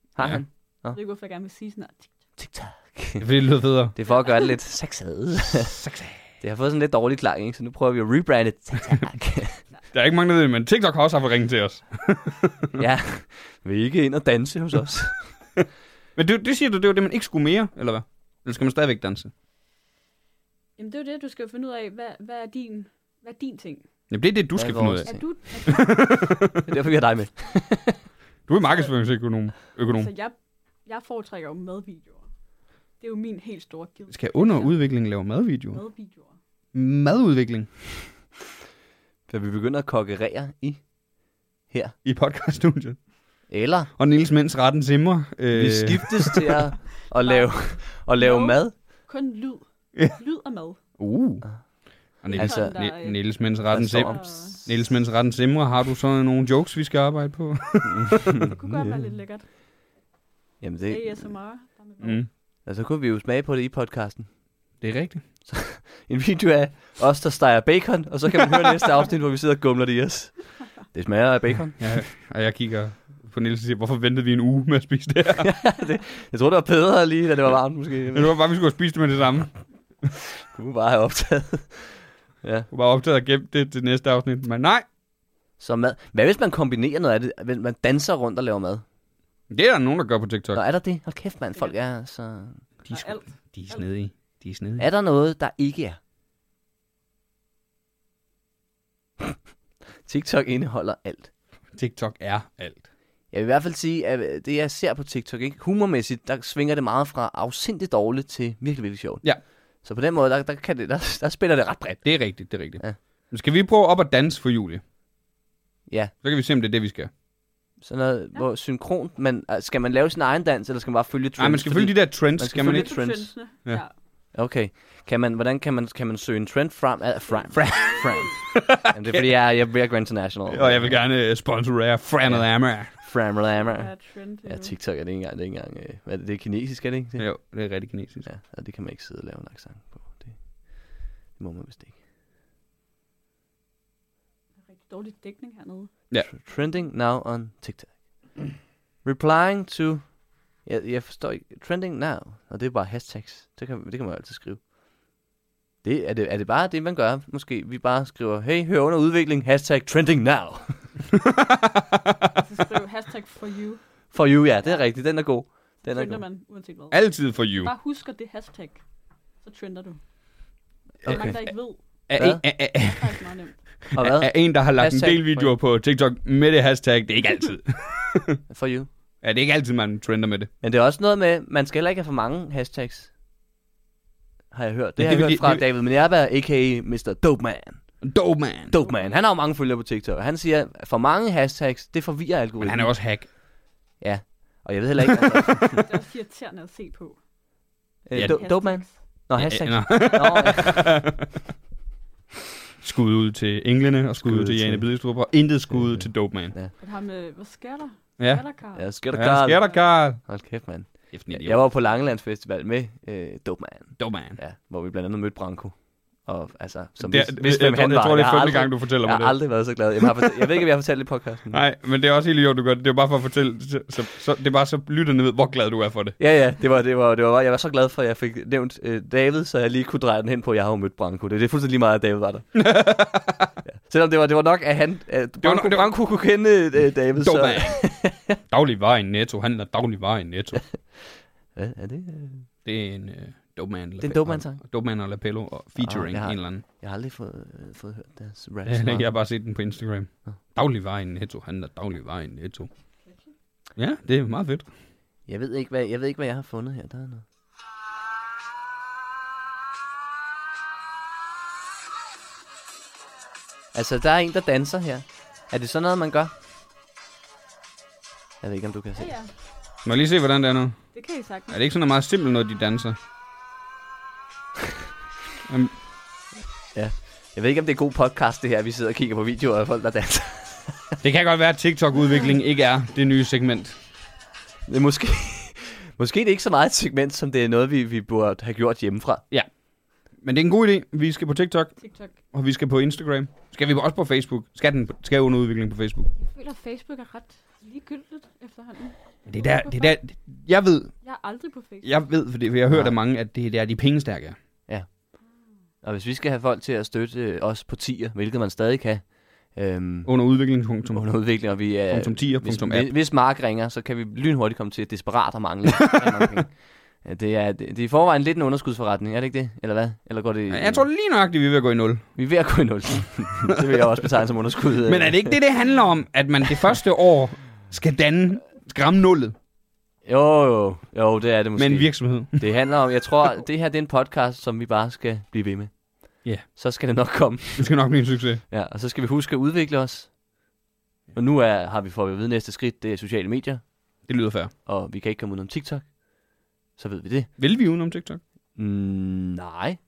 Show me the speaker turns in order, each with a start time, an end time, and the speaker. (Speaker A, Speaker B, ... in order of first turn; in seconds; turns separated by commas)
Speaker A: 0.1-1.0, Speaker B: 0.9-2.2, Speaker A: 2.4-5.8, Speaker C: 3.2-3.9, Speaker B: 4.0-4.5, Speaker C: 5.8-6.2, Speaker A: 6.4-9.6, Speaker C: 9.9-12.8, Speaker A: 12.8-15.4, Speaker C: 16.1-19.3, Speaker B: 20.8-23.8, Speaker C: 24.1-26.6, Speaker A: 24.5-25.3, Speaker B: 25.0-26.3, Speaker A: 26.6-28.0, Speaker C: 28.5-30.1, Speaker B: 28.7-28.9, Speaker B: 29.7-32.2, Speaker B: 33.0-34.8, Speaker C: 34.1-35.8, Speaker B: 35.7-36.4, Speaker C: 36.7-37.7, Speaker A: 39.3-40.8, Speaker A: 41.7-41.9, Speaker C: 42.0-43.0, Speaker A: 43.5-43.9, Speaker C: 44.0-46.6, Speaker A: 45.5-48.7, Speaker B: 47.1-50.8, Speaker C: 51.0-51.5, Speaker C: 52.1-58.4, Speaker A: 52.3-52.8, Speaker B: 52.3-53.3, Speaker A: 53.7-54.7, Speaker B: 54.0-54.6, Speaker A: 58.5-59.0, Speaker B: 58.5-59.4, Speaker A: 60.6-61.3, Speaker B: 60.9-62.2, Speaker C: 62.0-62.3, Speaker A: 62.6-64.3, Speaker C: 64.8-65.2, Speaker A: 65.4-71.9, Speaker C: 71.8-75.5, Speaker A: 75.4-78.3, Speaker C: 78.1-79.6, Speaker A: 80.5-82.7, Speaker C: 82.7-84.8, Speaker A: 85.6-88.8, Speaker C: 89.5-90.6, Speaker A: 90.5-92.6, Speaker C: 92.8-94.8, Speaker B: 92.9-93.8, Speaker A: 94.8-96.0, Speaker A: 100.0-101.3, Speaker C: 101.7-102.8, Speaker A: 103.3-113.0, Speaker C: 112.0-114.8, Speaker A: 115.9-116.1, Speaker C: 116.2-117.1, Speaker A: 117.8-123.3, Speaker C: 121.4-123.0, Speaker B: 122.5-123.9, Speaker A: 124.3-131.0, Speaker C: 127.5-129.3, Speaker B: 127.7-128.3, Speaker C: 130.5-132.9, Speaker A: 132.2-137.3, Speaker B: 133.5-134.7, Speaker C: 137.2-138.3, Speaker A: 138.2-141.9, Speaker B: 144.7-145.9, Speaker A: 146.2-148.0, Speaker A: 149.0-150.1, Speaker A: 150.6-154.6, Speaker A: 155.8-160.9, Speaker C: 161.2-162.3, Speaker B: 162.3-164.8, Speaker A: 164.1-166.2, Speaker B: 165.8-168.8, Speaker C: 166.9-167.7, Speaker B: 169.4-170.0, Speaker A: 171.0-171.5, Speaker B: 171.0-171.8, Speaker C: 172.1-173.3, Speaker A: 172.1-172.4, Speaker B: 172.8-173.8, Speaker C: 173.9-178.4, Speaker A: 173.9-175.5, Speaker A: 178.5-178.9, Speaker C: 179.2-180.5, Speaker A: 180.6-183.1, Speaker A: 184.5-188.0, Speaker C: 185.0-185.6, Speaker C: 188.0-188.7, Speaker A: 188.7-192.9, Speaker B: 188.8-189.2, Speaker C: 192.6-193.3, Speaker A: 194.0-195.8, Speaker B: 195.8-197.2, Speaker A: 198.1-200.9, Speaker C: 198.1-198.4, Speaker B: 198.1-199.0, Speaker C: 199.3-201.3, Speaker C: 202.8-206.5, Speaker A: 204.2-204.9, Speaker A: 205.7-206.7, Speaker B: 206.8-208.8, Speaker C: 208.2-208.4, Speaker A: 208.7-221.6, Speaker C: 209.1-210.3, Speaker C: 211.1-211.6, Speaker C: 214.0-214.4, Speaker C: 217.0-219.4, Speaker C: 221.5-226.2, Speaker A: 226.2-232.7, Speaker C: 232.5-233.5, Speaker A: 233.7-238.4, Speaker C: 235.4-235.9, Speaker C: 237.2-240.6, Speaker A: 240.7-242.5, Speaker C: 242.6-246.6, Speaker A: 244.0-244.6, Speaker A: 245.8-249.1, Speaker C: 248.7-252.7, Speaker B: 253.0-253.3, Speaker C: 253.8-254.7, Speaker A: 255.2-257.2, Speaker A: 263.7-266.3, Speaker A: 268.4-269.1, Speaker B: 268.9-269.3, Speaker C: 269.8-270.9, Speaker B: 270.9-271.6, Speaker C: 271.5-272.9, Speaker C: 275.5-275.8, Speaker A: 276.7-281.0, Speaker C: 281.0-283.8, Speaker A: 284.7-289.2, Speaker C: 290.2-291.8, Speaker B: 291.8-292.2, Speaker C: 292.3-296.1, Speaker B: 296.2-300.0, Speaker C: 299.3-300.9, Speaker B: 301.0-301.9, Speaker C: 301.8-304.4, Speaker A: 302.7-302.9, Speaker A: 305.8-310.1, Speaker C: 310.1-311.2, Speaker A: 310.9-320.9, Speaker C: 311.9-312.9, Speaker C: 320.5-322.0, Speaker A: 322.1-325.4, Speaker C: 324.8-329.3, Speaker A: 330.0-337.8, Speaker C: 331.6-332.4, Speaker C: 337.6-338.4, Speaker A: 338.5-340.1, Speaker A: 341.1-343.7, Speaker C: 344.0-344.5, Speaker A: 344.6-346.0, Speaker A: 346.7-347.3, Speaker C: 347.4-348.2, Speaker A: 348.6-349.8